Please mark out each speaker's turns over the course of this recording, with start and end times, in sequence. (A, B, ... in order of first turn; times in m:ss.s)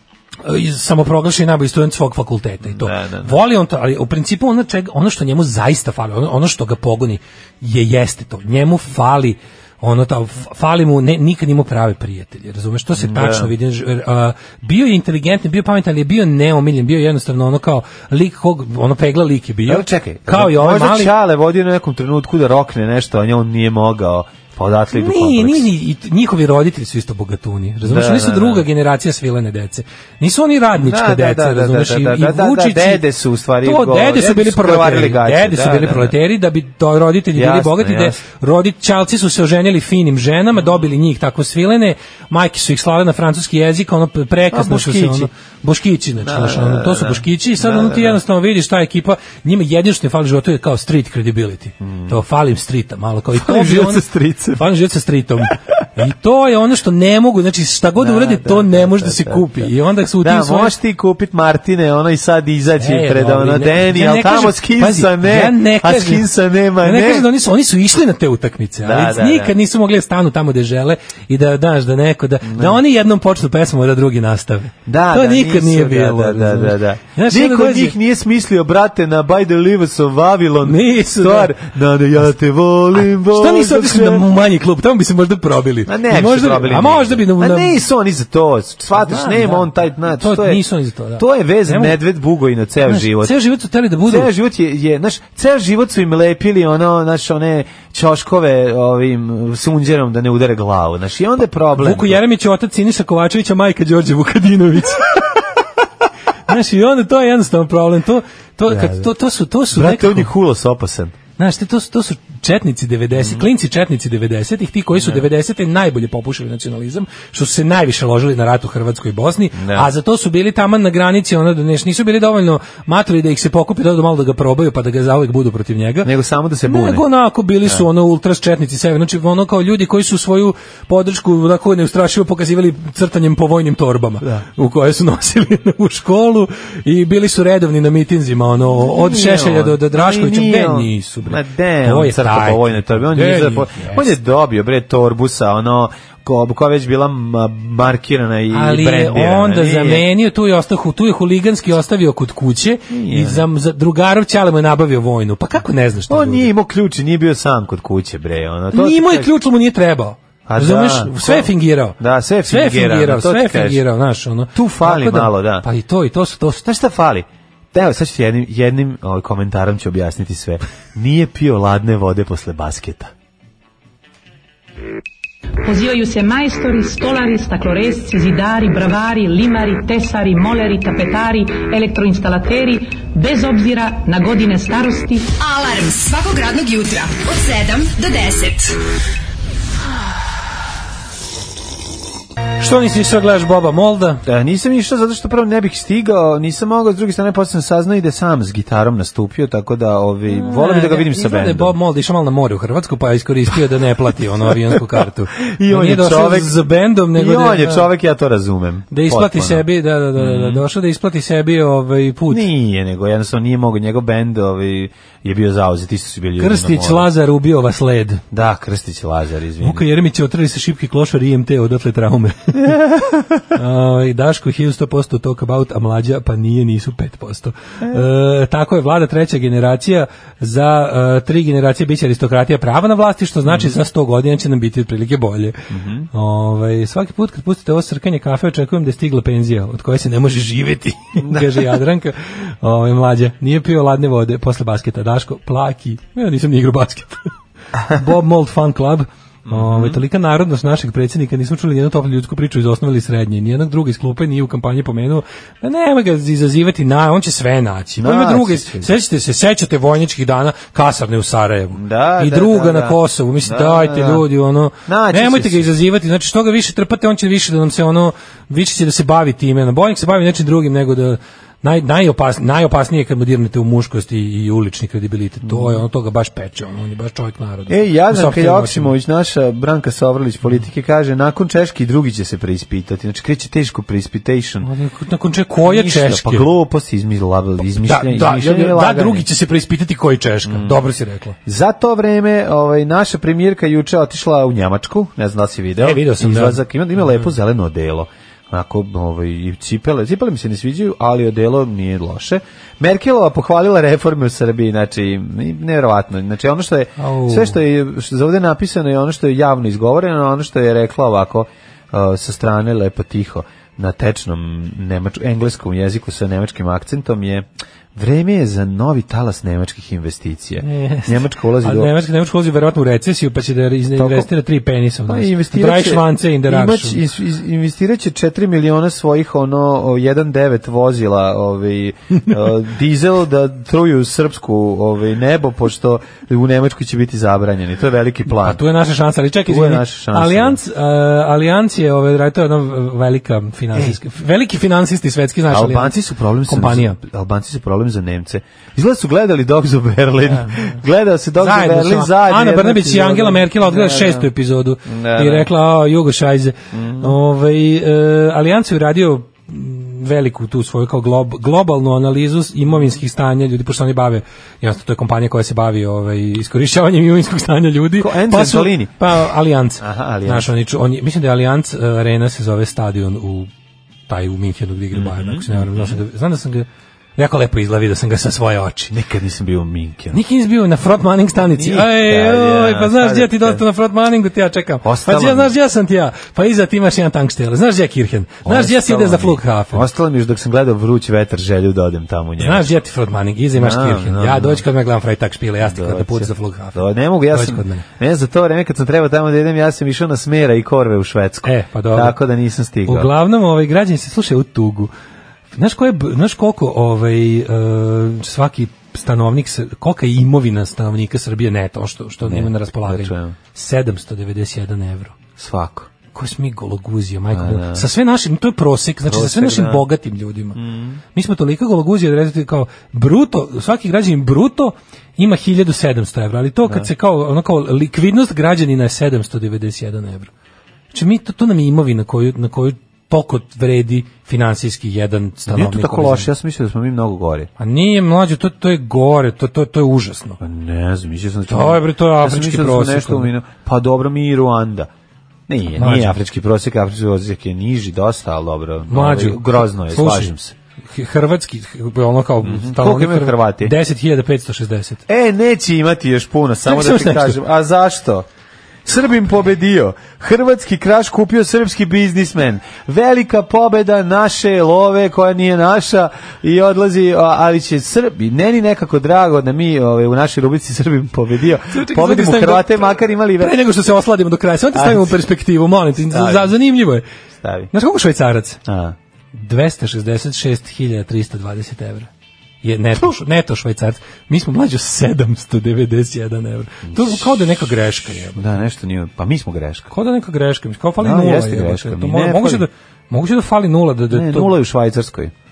0:00.4-0:21.1 A
0:02.6-0:03.4 B
0:12.9-0:13.5 B
0:19.7-0:25.7 B
0:24.9-0:33.0 A
0:27.8-0:28.6 B
0:30.7-0:36.1 B
0:33.6-1:00.7 A
0:37.3-0:38.2 B
0:44.5-0:45.3 B
0:46.2-0:48.2 B
0:51.8-0:52.2 B
0:53.3-0:54.6 B
0:58.0-0:59.7 B
1:00.2-1:07.3 B
1:02.8-1:06.3 A
1:06.8-1:17.9 A
1:08.8-1:09.5 B
1:12.4-1:12.8 B
1:14.8-1:24.3 B
1:20.6-1:21.5 A
1:23.0-1:27.8 A
1:25.8-1:30.6 B
1:29.0-1:32.0 A
1:31.2-1:33.4 B
1:32.8-1:34.3 A
1:34.0-1:42.2 B
1:41.8-1:45.2 A
1:46.5-1:50.3 A
1:48.7-1:49.1 B
1:49.7-1:51.2 B
1:51.4-2:06.1 A
1:53.2-1:53.4 B
1:54.9-1:55.2 B
1:59.6-1:59.9 B
2:06.0-2:07.0 B
2:06.6-2:24.1 A
2:18.7-2:30.1 B
2:28.5-2:36.5 A
2:32.9-2:33.4 B
2:36.1-2:39.3 B
2:38.7-2:46.6 A
2:40.5-2:43.8 B
2:44.5-2:45.6 B
2:46.6-2:53.1 B
2:55.6-3:05.3 C
3:05.4-3:08.8 D
3:12.6-3:14.2 A
3:14.2-3:21.7 B
3:20.3-3:27.9 A
3:24.7-3:30.6 B
3:28.9-3:32.5 A
3:32.3-3:37.1 B
3:36.4-3:38.2 A
3:38.3-3:39.8 B
3:39.6-3:42.8 A
3:42.6-3:43.4 B
3:43.5-4:07.3 A
3:53.4-3:53.7 B
3:55.7-3:56.1 B
4:01.2-4:01.7 B
4:07.9-4:38.9 A
4:09.4-4:10.0 B
4:18.0-4:18.9 B
4:21.7-4:24.2 B
4:24.8-4:25.7 B
4:35.4-4:35.8 B
4:37.7-4:44.7 B
4:44.6-4:46.5 A
4:45.6-4:49.2 B
4:47.8-4:51.4 A
4:50.4-4:50.8 B
4:51.4-5:21.9 B
4:55.8-4:56.6 A
5:07.0-5:07.6 A
5:20.6-5:27.0 A
5:24.0-5:24.3 B
5:25.1-5:38.6 B
5:38.3-5:47.0 A
5:39.4-5:40.6 B
5:45.5-5:54.3 B
5:50.3-5:50.7 A
5:51.4-6:13.5 A
5:54.8-5:55.5 B
5:56.7-5:57.1 B
6:08.0-6:09.0 B
6:09.8-6:10.5 B
6:14.1-6:18.9 A
6:14.9-6:16.0 B
6:18.9-6:20.2 B
6:20.1-6:29.8 A
6:21.4-6:23.6 B
6:24.8-6:25.5 B
6:28.4-6:32.7 B
6:32.4-6:37.8 A
6:33.5-6:34.6 B
6:35.6-6:43.1 B
6:41.4-6:42.2 A
6:42.8-6:44.9 A
6:45.6-6:55.1 A
6:52.2-6:53.4 B
6:55.4-6:55.9 B
6:56.1-7:00.6 A
6:57.3-6:57.9 B
6:59.0-6:59.8 B
7:00.5-7:01.0 B
7:01.1-7:10.3 A
7:10.9-7:16.3 A
7:15.5-7:17.5 B
7:17.6-7:20.4 A
7:20.4-7:24.9 B
7:21.5-7:23.3 A
7:25.5-7:30.5 B
7:25.8-7:26.2 A
7:28.9-7:30.3 A
7:30.9-7:35.0 A
7:32.4-7:33.7 B
7:35.1-7:38.2 B
7:36.6-7:37.4 A
7:38.8-7:53.6 B
7:51.7-7:57.0 A
7:54.7-7:55.2 B
7:56.1-7:56.5 B
7:57.4-7:57.7 B
7:57.7-7:58.6 A
7:58.6-7:59.0 B
7:59.3-8:02.1 A
8:02.6-8:08.6 A
8:06.8-8:07.4 B
8:08.4-8:09.9 B
8:09.9-8:14.5 A
8:11.0-8:12.7 B
8:14.1-8:15.3 B